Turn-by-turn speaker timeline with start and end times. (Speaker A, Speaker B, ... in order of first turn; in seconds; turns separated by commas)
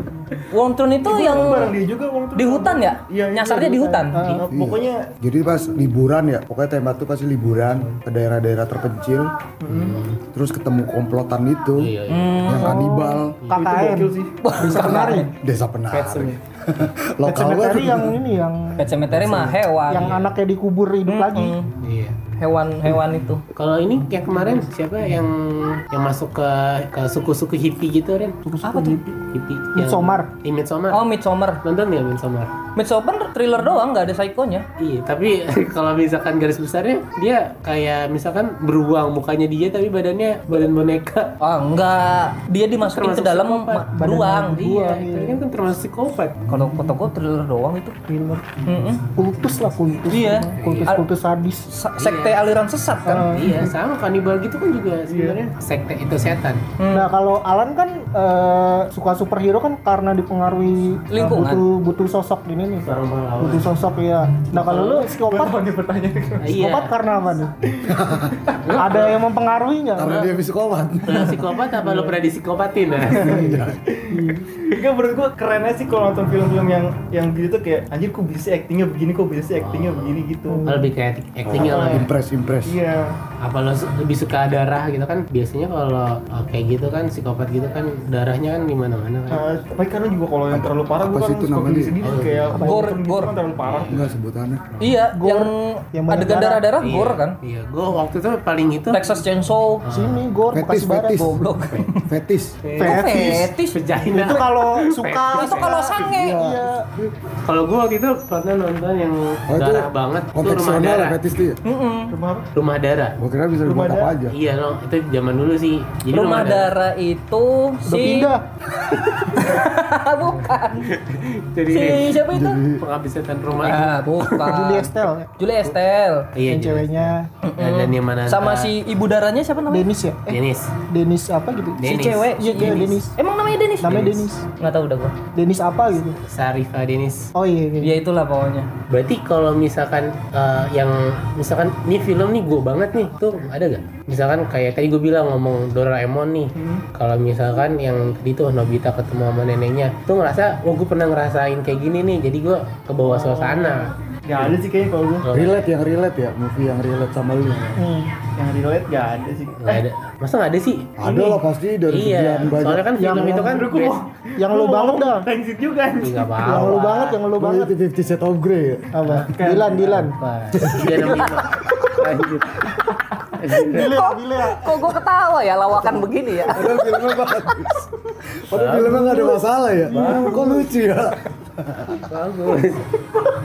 Speaker A: 0.5-1.8, Speaker B: 1.0-5.1, Speaker A: 2.3-4.2, Speaker C: 3.8-4.5, Speaker D: 4.5-9.3, Speaker B: 9.6-10.0, Speaker E: 9.7-10.2, Speaker D: 10.3-11.9, Speaker E: 11.8-12.4, Speaker A: 12.1-12.8, Speaker D: 12.4-13.3, Speaker C: 12.6-15.3, Speaker E: 13.4-13.7, Speaker B: 13.6-14.4, Speaker A: 14.4-15.3, Speaker D: 14.7-18.2, Speaker E: 15.9-16.4, Speaker C: 17.2-21.5, Speaker A: 18.8-20.1, Speaker E: 19.9-20.2, Speaker A: 21.0-21.7, Speaker E: 21.8-22.2, Speaker A: 22.4-23.4, Speaker E: 23.5-28.4, Speaker C: 28.4-29.1, Speaker A: 28.6-29.0, Speaker E: 29.3-31.0, Speaker C: 29.7-30.3, Speaker A: 30.9-31.6, Speaker E: 31.6-32.5, Speaker A: 32.7-34.6, Speaker E: 34.8-41.3, Speaker A: 41.4-44.6, Speaker E: 42.8-43.9, Speaker C: 43.9-45.4, Speaker E: 44.5-46.4, Speaker A: 46.5-48.0, Speaker C: 48.1-48.6, Speaker A: 48.6-49.0, Speaker C: 49.1-51.6, Speaker A: 50.1-51.0, Speaker E: 50.6-51.0, Speaker A: 51.7-53.4, Speaker E: 52.0-52.4, Speaker C: 53.0-53.7, Speaker E: 53.2-56.6, Speaker C: 55.1-55.4, Speaker A: 56.8-57.1, Speaker C: 56.9-65.6, Speaker A: 61.1-61.6, Speaker E: 62.8-63.7, Speaker E: 64.5-65.1, Speaker B: 65.2-66.5, Speaker E: 66.4-66.9, Speaker C: 66.5-67.5, Speaker D: 67.9-68.3, Speaker E: 68.6-69.2, Speaker C: 68.8-70.2, Speaker D: 69.9-71.4, Speaker E: 71.1-73.4, Speaker C: 71.8-72.1, Speaker B: 73.1-80.7, Speaker D: 73.1-73.8, Speaker C: 74.1-74.5, Speaker E: 79.6-82.1, Speaker C: 80.5-80.9, Speaker D: 81.5-82.8, Speaker B: 81.6-82.0, Speaker B: 82.6-83.1, Speaker E: 83.4-89.5, Speaker B: 89.3-94.1, Speaker D: 90.5-92.0, Speaker E: 92.0-92.6, Speaker C: 92.6-92.8, Speaker A: 92.6-93.3, Speaker E: 93.6-94.0, Speaker D: 93.9-94.8, Speaker A: 94.8-97.4, Speaker C: 95.1-96.6, Speaker E: 96.8-99.0, Speaker A: 98.9-99.8, Speaker E: 99.8-100.2, Speaker C: 99.9-101.3, Speaker D: 100.5-102.6, Speaker A: 101.2-102.0, Speaker E: 102.6-103.1, Speaker C: 102.8-106.8, Speaker A: 102.8-103.8, Speaker E: 103.7-106.0, Speaker A: 105.3-106.4, Speaker D: 106.0-107.1, Speaker E: 107.4-111.2, Speaker D: 109.5-111.6, Speaker A: 111.6-112.1, Speaker B: 112.1-112.5, Speaker E: 112.5-113.2, Speaker D: 113.2-114.3, Speaker B: 113.6-114.1, Speaker E: 114.3-116.7, Speaker A: 116.1-118.3, Speaker C: 117.9-118.4, Speaker A: 119.3-120.9, Speaker E: 120.8-122.2, Speaker A: 121.7-122.6, Speaker D: 122.3-122.8, Speaker E: 122.8-124.4, Speaker A: 123.6-126.3, Speaker C: 124.4-125.3, Speaker E: 126.3-128.7, Speaker C: 126.4-127.3, Speaker A: 127.4-129.9, Speaker C: 129.7-133.1, Speaker E: 130.3-130.7, Speaker E: 131.8-132.8, Speaker A: 131.8-135.2, Speaker C: 133.8-134.4, Speaker C: 135.3-136.2, Speaker E: 136.2-137.3, Speaker C: 137.3-137.9, Speaker A: 137.8-138.7, Speaker E: 138.9-154.5, Speaker B: 146.6-146.8, Speaker B: 153.0-155.3, Speaker E: 155.2-155.7, Speaker D: 155.3-157.8, Speaker C: 157.8-158.1, Speaker B: 158.4-159.8, Speaker E: 159.6-161.0, Speaker D: 161.0-163.3, Speaker B: 161.0-161.4, Speaker E: 161.9-164.0, Speaker C: 163.0-163.6, Speaker B: 163.4-166.7, Speaker C: 164.4-165.2, Speaker E: 166.0-167.2, Speaker C: 166.4-167.7, Speaker D: 167.3-168.9, Speaker C: 168.9-170.1, Speaker B: 169.2-170.0, Speaker E: 169.8-172.8, Speaker D: 170.6-171.1, Speaker E: 173.3-174.0, Speaker C: 173.5-174.8, Speaker A: 173.9-177.0, Speaker D: 176.5-177.8, Speaker D: 178.4-182.1, Speaker E: 178.5-179.1, Speaker C: 179.9-180.6, Speaker E: 179.9-180.4, Speaker E: 182.1-182.9